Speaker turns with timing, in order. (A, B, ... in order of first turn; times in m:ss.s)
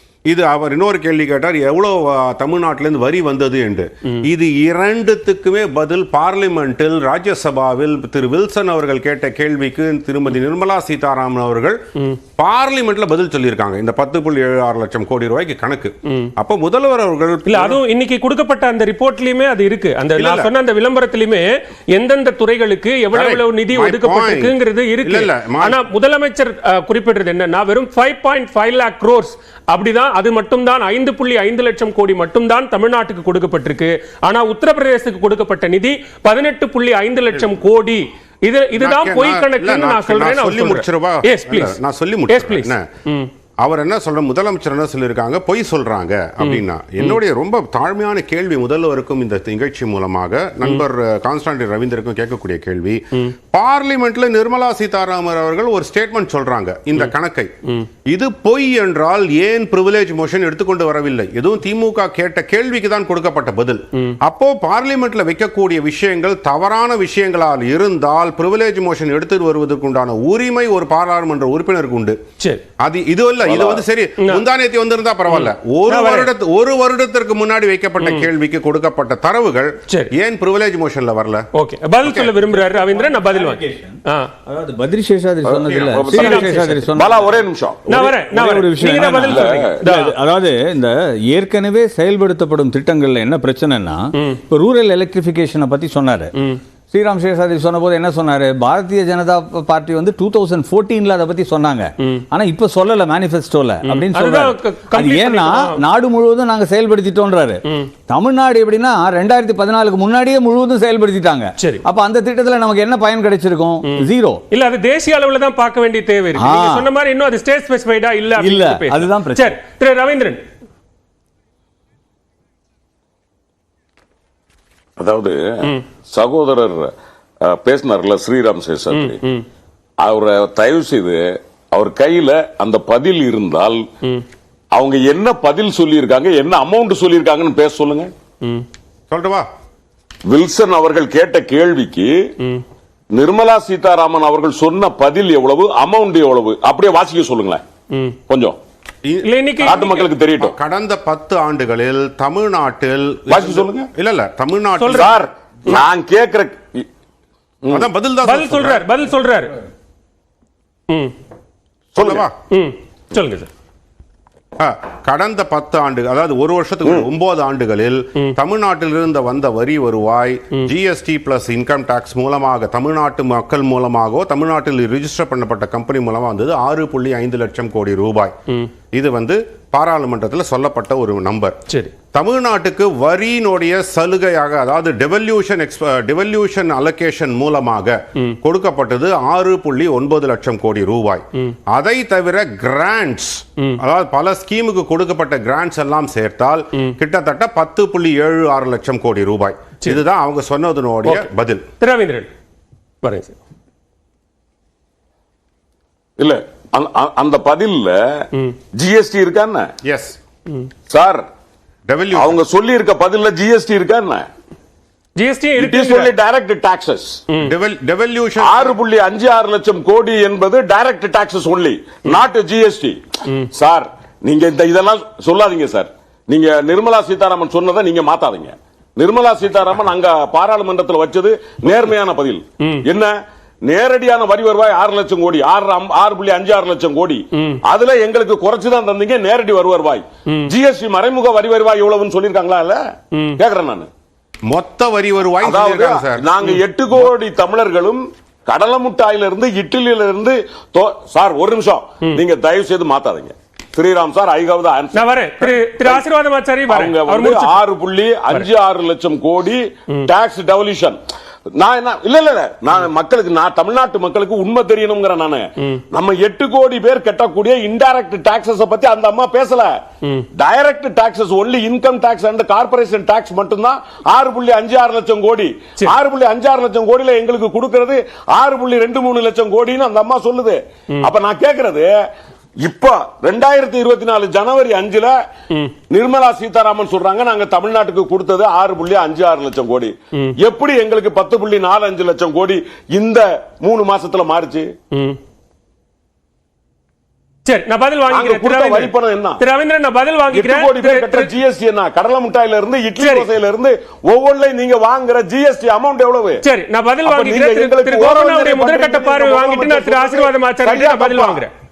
0:00.3-0:11.8 A
0:12.4-0:17.8 A
0:17.5-0:43.3 B
0:20.2-0:20.5 A
0:23.1-0:25.8 A
0:38.8-0:42.9 A
0:43.6-0:57.5 A
0:46.4-0:47.2 B
0:58.1-1:12.2 A
1:12.8-1:21.5 A
1:13.4-1:13.8 C
1:15.3-1:16.3 B
1:18.0-1:18.3 B
1:21.5-1:24.3 B
1:22.0-1:22.4 A
1:22.5-1:27.4 D
1:25.4-1:28.1 C
1:26.1-1:26.8 B
1:27.9-1:30.2 B
1:27.9-1:36.3 D
1:29.2-1:29.8 C
1:36.9-1:54.4 D
1:43.8-1:45.8 B
1:47.7-1:47.9 B
1:51.6-1:51.8 B
1:54.5-2:00.4 B
1:56.4-1:56.9 D
1:58.4-1:59.5 D
2:05.0-2:06.9 C
2:07.4-2:09.2 C
2:08.9-2:09.5 B
2:10.0-2:13.8 C
2:14.7-2:18.1 C
2:19.1-2:19.5 A
2:20.3-2:22.1 C
2:23.1-2:27.6 C
2:27.9-2:28.2 B
2:28.3-2:28.6 C
2:29.0-2:35.2 A
2:29.2-2:30.0 B
2:29.6-2:30.6 C
2:33.3-2:33.8 C
2:34.8-2:35.1 B
2:34.9-2:36.8 C
2:37.7-2:38.9 A
2:38.2-2:39.5 B
2:42.0-2:42.3 C
2:42.0-2:42.3 A
2:42.5-2:43.5 B
2:44.6-2:58.4 A
2:58.9-3:01.6 A
3:01.7-3:01.9 B
3:02.1-3:21.6 A
3:21.8-3:22.3 B
3:23.0-3:23.4 B
3:26.2-3:28.2 C
3:28.8-3:29.7 C
3:29.8-3:30.2 A
3:30.9-3:31.2 C
3:31.9-3:32.4 A
3:32.2-3:34.3 C
3:35.2-3:36.1 B
3:35.6-3:37.2 C
3:37.4-3:38.8 A
3:38.4-3:43.0 C
3:43.5-3:53.1 C
3:52.6-3:52.8 B
3:53.7-4:02.8 C
3:57.3-3:57.6 B
4:03.1-4:03.4 B
4:03.4-4:03.9 C
4:04.5-4:06.3 A
4:05.4-4:16.0 C
4:14.9-4:17.6 B
4:16.7-4:21.0 C
4:21.6-4:29.7 C
4:30.4-4:41.9 C
4:42.6-4:45.2 C
4:45.9-4:54.7 C
4:54.9-4:55.2 B
4:57.5-5:01.3 B
4:58.1-4:59.4 C
5:00.3-5:06.4 C
5:03.0-5:03.3 B
5:06.4-5:11.5 B
5:07.0-5:11.4 C